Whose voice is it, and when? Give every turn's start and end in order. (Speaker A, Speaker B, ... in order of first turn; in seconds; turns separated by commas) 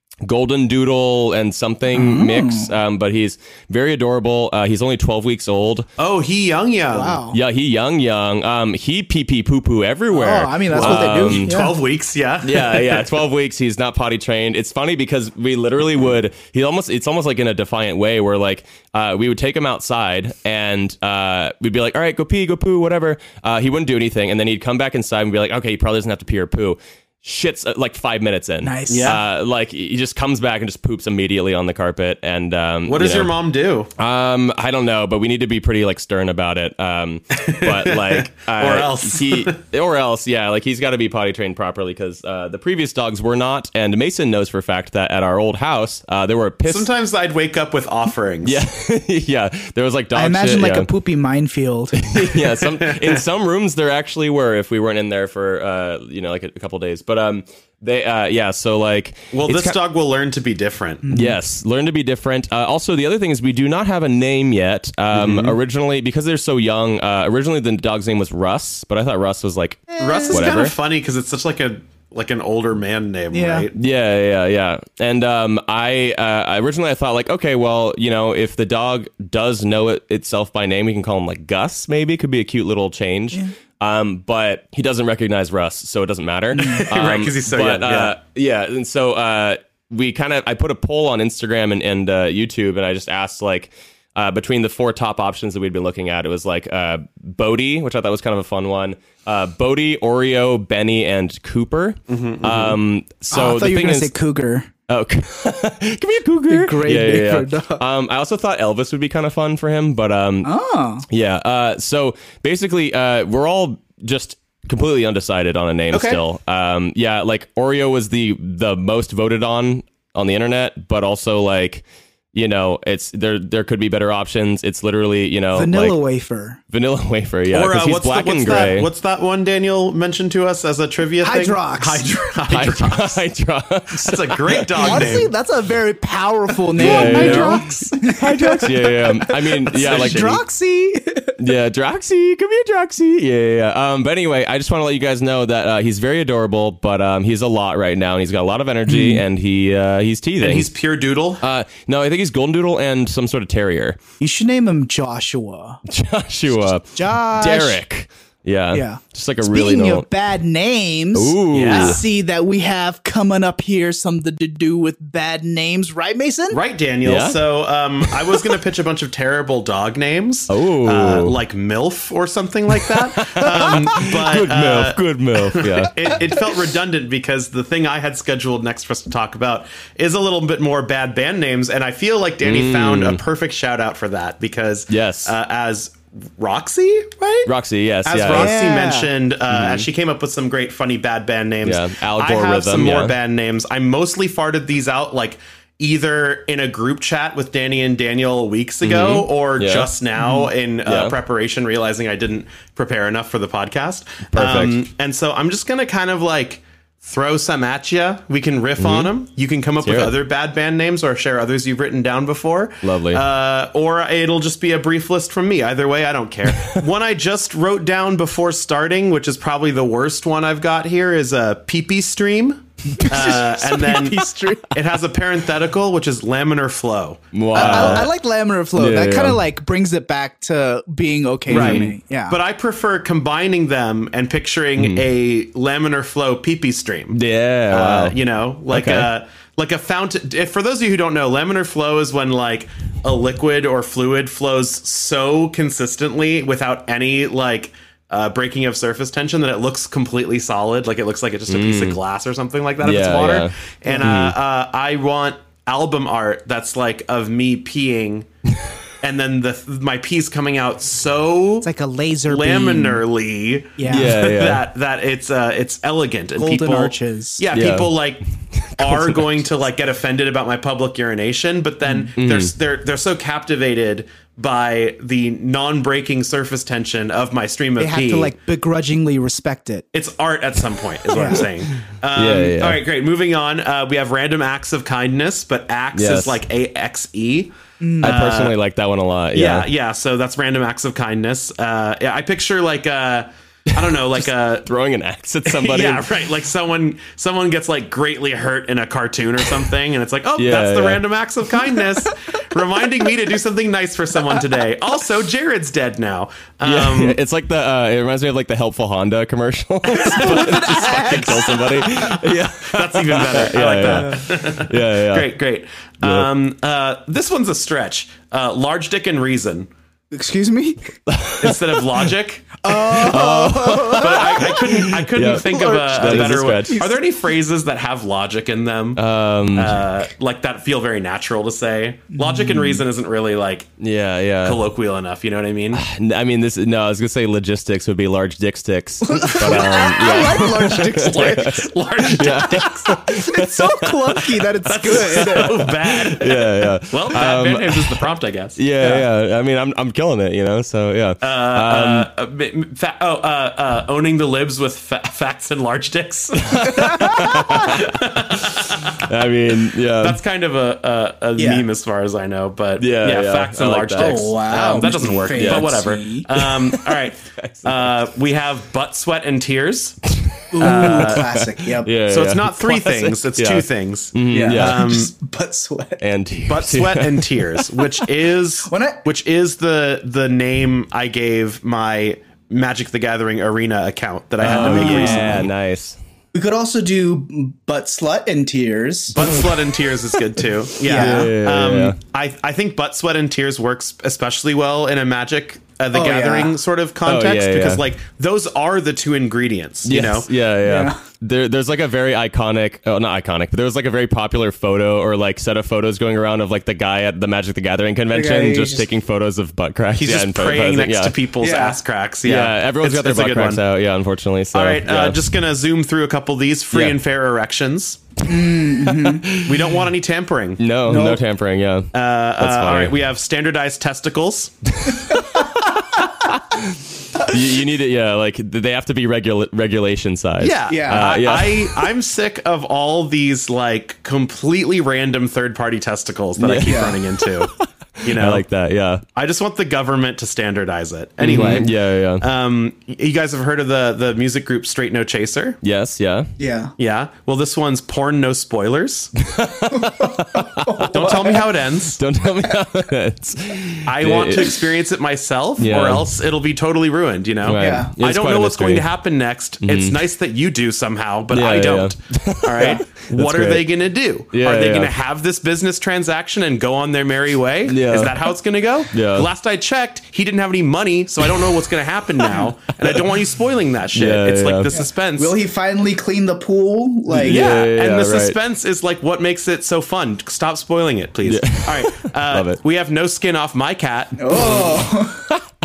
Speaker A: 0.2-5.9, Speaker B: 1.9-2.7, Speaker C: 6.0-7.2, Speaker B: 6.9-7.4, Speaker A: 7.3-11.6, Speaker B: 10.1-11.8, Speaker C: 10.7-13.1, Speaker A: 12.4-33.3, Speaker B: 28.6-29.2, Speaker C: 28.9-29.2, Speaker C: 32.9-33.9, Speaker A: 34.0-46.9, Speaker C: 37.4-39.6, Speaker C: 46.7-48.6, Speaker A: 48.4-50.9, Speaker B: 50.1-52.0, Speaker A: 51.9-59.8, Speaker C: 52.6-53.2, Speaker C: 59.3-61.1, Speaker B: 61.0-61.4, Speaker A: 61.1-70.7, Speaker C: 65.1-65.5, Speaker B: 69.9-70.4, Speaker C: 70.0-73.8, Speaker B: 73.3-73.7, Speaker A: 73.8-104.1, Speaker C: 86.6-88.2, Speaker C: 102.1-102.8, Speaker B: 103.3-104.7, Speaker A: 104.9-110.5, Speaker B: 106.5-107.8, Speaker B: 110.4-111.0, Speaker A: 111.1-126.0, Speaker C: 115.9-116.2, Speaker B: 125.5-126.6, Speaker A: 126.7-128.9, Speaker C: 127.5-133.2, Speaker B: 131.2-132.2, Speaker A: 132.5-135.2, Speaker C: 133.9-135.3, Speaker B: 134.8-141.4, Speaker C: 136.8-138.0, Speaker A: 136.8-140.4, Speaker C: 139.7-140.4, Speaker A: 141.4-150.7, Speaker B: 148.9-149.2, Speaker C: 150.4-151.4, Speaker A: 151.4-154.0, Speaker B: 154.2-155.8, Speaker A: 155.9-160.1, Speaker B: 156.9-157.8, Speaker B: 158.7-166.6, Speaker A: 161.1-162.0, Speaker C: 161.5-162.0, Speaker C: 166.5-187.5, Speaker A: 167.0-167.4, Speaker A: 168.0-168.6, Speaker A: 170.5-171.4, Speaker A: 172.8-176.2, Speaker A: 182.4-183.2, Speaker A: 184.9-185.3, Speaker A: 187.5-188.6, Speaker C: 188.1-228.1, Speaker B: 188.3-189.1, Speaker A: 189.5-189.9, Speaker A: 191.6-193.2, Speaker A: 198.8-199.9, Speaker B: 200.2-200.5, Speaker A: 200.8-201.2, Speaker A: 204.3-204.9, Speaker A: 208.8-209.1, Speaker A: 209.8-210.2, Speaker A: 212.8-213.2, Speaker B: 222.9-224.7, Speaker A: 227.3-228.1, Speaker B: 227.5-232.4, Speaker A: 228.8-229.4, Speaker A: 231.5-231.9, Speaker C: 231.5-258.3, Speaker A: 234.8-235.1, Speaker A: 237.1-238.2, Speaker A: 238.7-239.1, Speaker A: 251.5-252.0, Speaker A: 252.8-254.4, Speaker B: 253.9-254.1, Speaker C: 259.0-261.7, Speaker B: 261.6-263.0, Speaker C: 262.3-268.2, Speaker B: 263.8-264.2, Speaker A: 263.9-264.7, Speaker B: 266.4-267.4, Speaker A: 267.5-267.9, Speaker A: 268.5-269.4, Speaker C: 268.8-278.3, Speaker B: 271.8-272.1, Speaker A: 272.2-272.5, Speaker B: 277.8-279.9, Speaker C: 279.9-288.6, Speaker B: 281.1-281.4, Speaker A: 282.1-282.8, Speaker A: 285.9-286.4, Speaker B: 287.8-288.2, Speaker A: 288.0-289.7, Speaker C: 289.3-294.7, Speaker A: 293.8-296.1, Speaker C: 295.5-307.2, Speaker A: 300.4-301.1, Speaker A: 306.6-315.3, Speaker B: 309.9-312.0, Speaker C: 310.1-319.7, Speaker B: 313.8-314.2, Speaker A: 316.0-316.3, Speaker B: 320.1-320.9, Speaker A: 321.1-322.1, Speaker C: 321.4-322.6, Speaker B: 322.6-327.0, Speaker A: 322.7-326.9, Speaker C: 323.9-333.7, Speaker A: 329.0-329.9, Speaker B: 332.1-332.8, Speaker A: 333.8-334.6, Speaker C: 334.4-335.8, Speaker A: 335.7-344.2, Speaker B: 339.0-345.7, Speaker C: 339.4-343.1, Speaker C: 344.6-348.6, Speaker A: 344.9-348.0, Speaker A: 348.6-352.1, Speaker B: 348.8-349.1, Speaker C: 351.2-359.1, Speaker A: 356.4-360.2, Speaker B: 356.6-357.8, Speaker C: 360.0-370.0, Speaker B: 361.4-361.7, Speaker A: 362.8-364.4, Speaker B: 364.0-366.3, Speaker A: 365.3-367.9, Speaker A: 370.2-374.9, Speaker B: 370.5-371.9, Speaker C: 370.6-371.3, Speaker C: 372.1-375.1, Speaker B: 374.3-376.0, Speaker A: 376.0-377.9, Speaker C: 376.5-385.4, Speaker B: 378.6-379.0, Speaker B: 384.4-385.4, Speaker A: 384.4-386.0, Speaker B: 386.3-389.4, Speaker C: 389.1-400.3, Speaker B: 390.8-391.3, Speaker A: 390.9-392.0, Speaker B: 395.9-396.6, Speaker A: 397.1-397.9, Speaker A: 399.9-411.2, Speaker B: 400.6-401.0, Speaker B: 408.1-408.9, Speaker C: 410.0-413.6, Speaker B: 411.4-411.8, Speaker A: 412.2-415.2, Speaker C: 414.5-418.0, Speaker A: 416.7-417.0, Speaker B: 418.3-419.3, Speaker A: 418.8-419.8, Speaker C: 419.3-420.6, Speaker A: 420.6-423.0, Speaker B: 420.9-421.2, Speaker C: 421.9-424.7, Speaker A: 424.8-431.8, Speaker B: 425.1-425.4, Speaker C: 430.4-438.4, Speaker B: 430.7-431.1, Speaker A: 436.4-439.0, Speaker B: 436.6-437.0, Speaker C: 439.1-445.6, Speaker A: 441.2-442.3, Speaker A: 445.6-446.3, Speaker B: 446.4-446.7, Speaker C: 446.8-449.1, Speaker A: 449.2-454.6, Speaker B: 449.7-451.5, Speaker C: 450.9-452.0, Speaker C: 453.9-475.4, Speaker A: 455.6-456.2, Speaker A: 457.4-458.9, Speaker B: 457.5-457.9, Speaker A: 459.6-460.0, Speaker A: 461.3-463.7, Speaker A: 464.3-464.9, Speaker A: 467.6-468.3, Speaker A: 468.9-469.3, Speaker A: 471.2-471.6, Speaker A: 472.2-473.1, Speaker A: 473.9-474.7, Speaker B: 474.7-477.5, Speaker A: 477.1-478.4, Speaker C: 477.2-484.5, Speaker A: 481.2-482.6, Speaker B: 484.2-485.3, Speaker A: 484.4-485.4